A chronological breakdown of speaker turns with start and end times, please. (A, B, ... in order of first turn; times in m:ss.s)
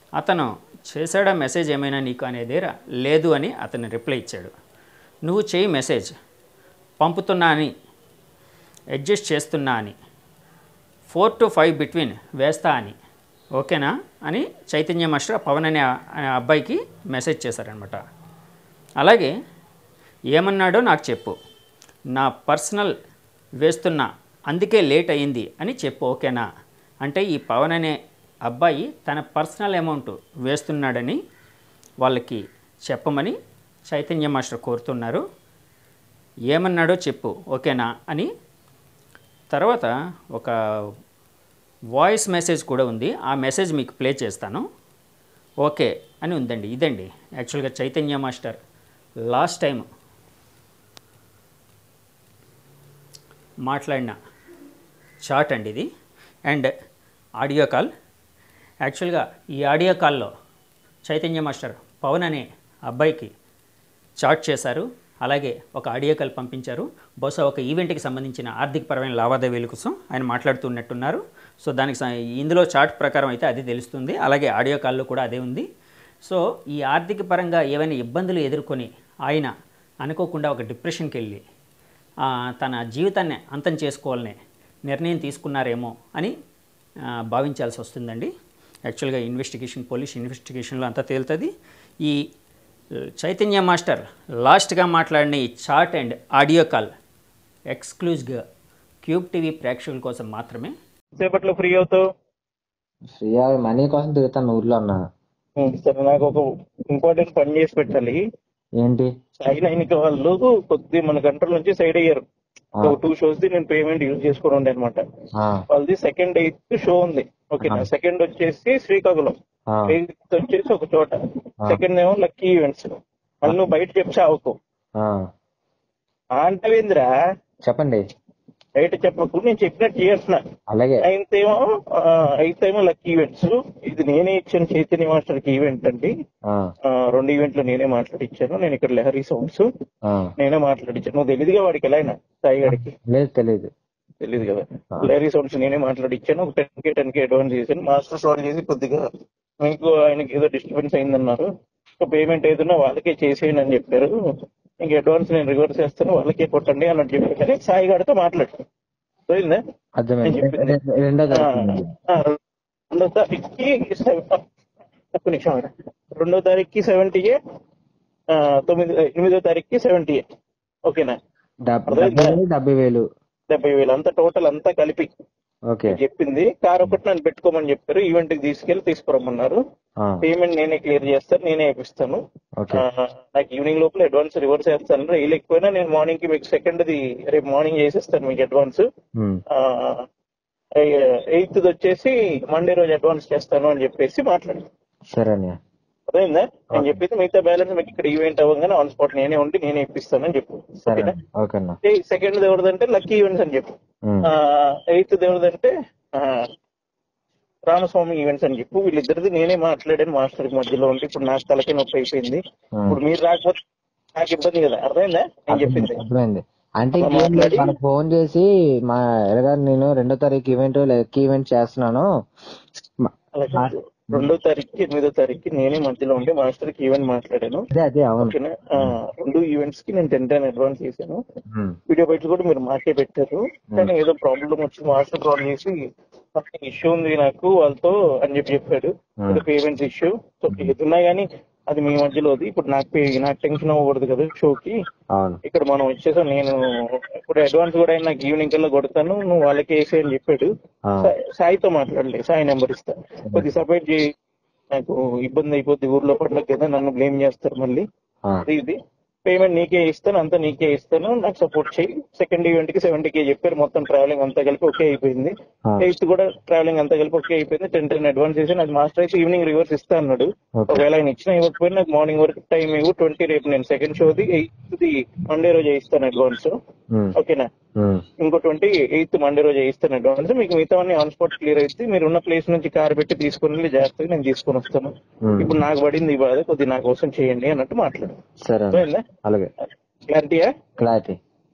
0:00.2-0:04.5 A
0:05.2-0:06.1 A
0:07.0-0:07.7 A
0:08.9-0:09.9 A
0:11.1-0:13.0 A
0:13.6-0:18.0 A
0:19.0-0:19.3 A
0:20.3-0:21.3 A
0:22.1-0:22.9 A
0:23.6-0:26.4 A
0:27.0-0:27.9 A
0:28.4-0:31.2 A
0:32.0-0:33.4 A
0:33.9-0:35.2 A
0:36.5-0:38.3 A
0:39.5-0:40.5 A
0:41.9-0:44.6 A
0:45.6-0:48.6 A
0:49.2-0:49.8 A
0:53.6-0:54.1 A
0:55.2-0:55.9 A
0:57.4-0:57.9 A
0:58.8-1:00.3 A
1:01.1-1:03.3 A
1:04.2-1:15.7 A
1:16.2-1:19.5 A
1:20.0-1:21.4 A
1:22.2-1:24.4 A
1:24.9-1:26.3 A
1:27.3-1:28.3 A
1:28.9-1:31.5 A
1:33.2-1:36.9 A
1:37.7-1:38.4 A
1:39.0-1:40.7 A
1:41.2-1:42.0 B
1:43.2-1:45.0 C
1:45.6-1:46.4 B
1:46.9-1:48.2 B
1:48.8-1:49.1 C
1:49.4-1:52.2 B
1:52.8-1:55.0 B
1:55.7-1:59.3 B
1:59.9-2:02.9 B
2:03.4-2:04.5 B
2:06.4-2:07.1 B
2:07.6-2:08.0 C
2:08.8-2:10.4 B
2:10.7-2:11.0 C
2:11.0-2:16.1 B
2:16.9-2:19.6 B
2:20.0-2:20.3 C
2:20.4-2:22.9 B
2:23.1-2:23.7 C
2:24.2-2:29.1 B
2:29.6-2:31.5 B
2:32.0-2:34.1 B
2:34.8-2:38.5 B
2:39.3-2:39.6 B
2:40.0-2:41.8 C
2:40.2-2:40.7 B
2:41.3-2:42.4 B
2:42.9-2:44.4 B
2:45.2-2:47.4 B
2:48.3-2:50.2 B
2:50.8-2:51.1 B
2:51.7-2:53.0 C
2:51.9-2:52.3 B
2:53.5-2:55.1 B
2:55.7-2:56.0 C
2:55.9-2:59.6 B
3:00.2-3:02.2 B
3:02.8-3:08.8 B
3:09.5-3:10.0 B
3:10.8-3:14.6 B
3:15.1-3:15.6 C
3:16.1-3:21.1 B
3:20.9-3:21.8 C
3:21.8-3:23.7 B
3:24.3-3:26.3 B
3:27.7-3:33.6 B
3:34.2-3:36.0 B
3:35.5-3:42.1 C
3:37.0-3:37.7 B
3:43.0-3:44.3 C
3:43.4-3:47.6 B
3:47.7-3:48.9 C
3:48.2-3:51.2 B
3:51.5-3:51.8 C
3:51.9-3:55.8 B
3:56.4-4:04.8 B
4:05.4-4:06.6 B
4:07.3-4:10.5 B
4:11.0-4:14.0 B
4:14.7-4:17.8 B
4:18.5-4:18.7 B
4:19.2-4:36.5 B
4:30.6-4:30.8 C
4:37.2-4:37.4 B
4:37.8-4:38.0 C
4:38.2-4:48.1 B
4:45.2-4:45.5 C
4:48.4-4:49.5 C
4:48.7-4:49.0 B
4:50.1-4:50.5 B
4:50.8-4:51.2 C